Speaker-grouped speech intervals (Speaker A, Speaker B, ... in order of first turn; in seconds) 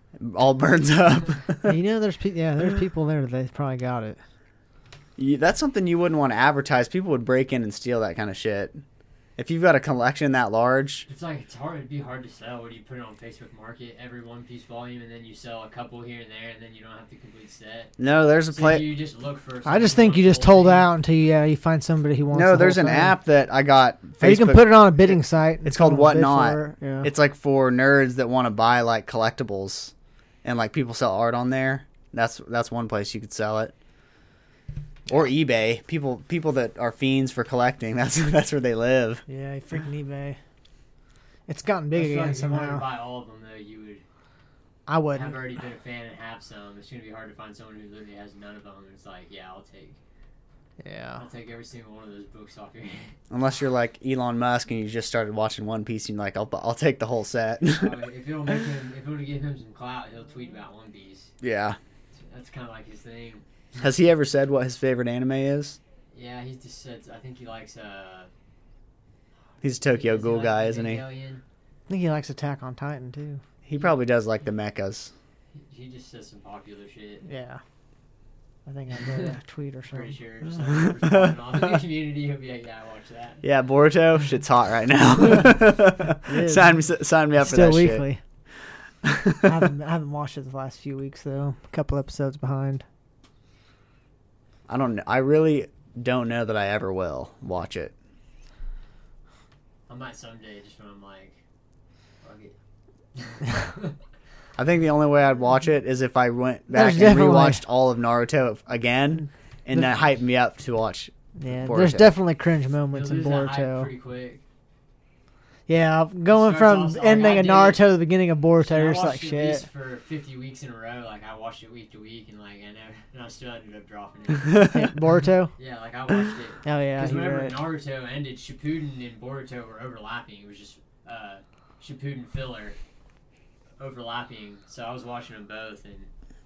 Speaker A: 0.2-1.8, 5.2-8.8, 9.4-11.1, 18.0-18.9, 22.3-29.9, 30.4-33.7, 35.1-39.2, 53.3-58.0, 61.4-61.8, 63.8-65.8, 69.6-71.0, 73.6-75.1, 81.0-81.3, 83.4-88.0, 89.0-89.5, 94.7-97.9, 104.6-112.1
Speaker B: 1.6-4.2, 19.6-23.1, 24.2-27.1, 39.3-40.4, 41.5-42.8, 44.9-45.4, 50.8-51.2, 71.9-73.4, 77.2-77.6, 78.7-80.2, 86.3-86.8, 87.4-88.2, 89.4-92.8, 106.7-107.6, 111.4-113.9, 115.7-119.6, 124.7-125.5, 126.6-127.6
Speaker C: 11.1-17.9, 18.5-20.9, 41.9-44.0, 45.1-50.0, 51.2-53.1, 57.7-61.3, 62.1-63.9, 66.1-68.3, 69.7-71.4, 75.5-77.2, 79.0-79.3, 79.9-83.4, 99.9-101.4, 102.2-102.5, 103.1-104.0, 112.9-114.4, 116.3-117.8, 118.6-124.8, 125.6-132.8, 133.8-136.1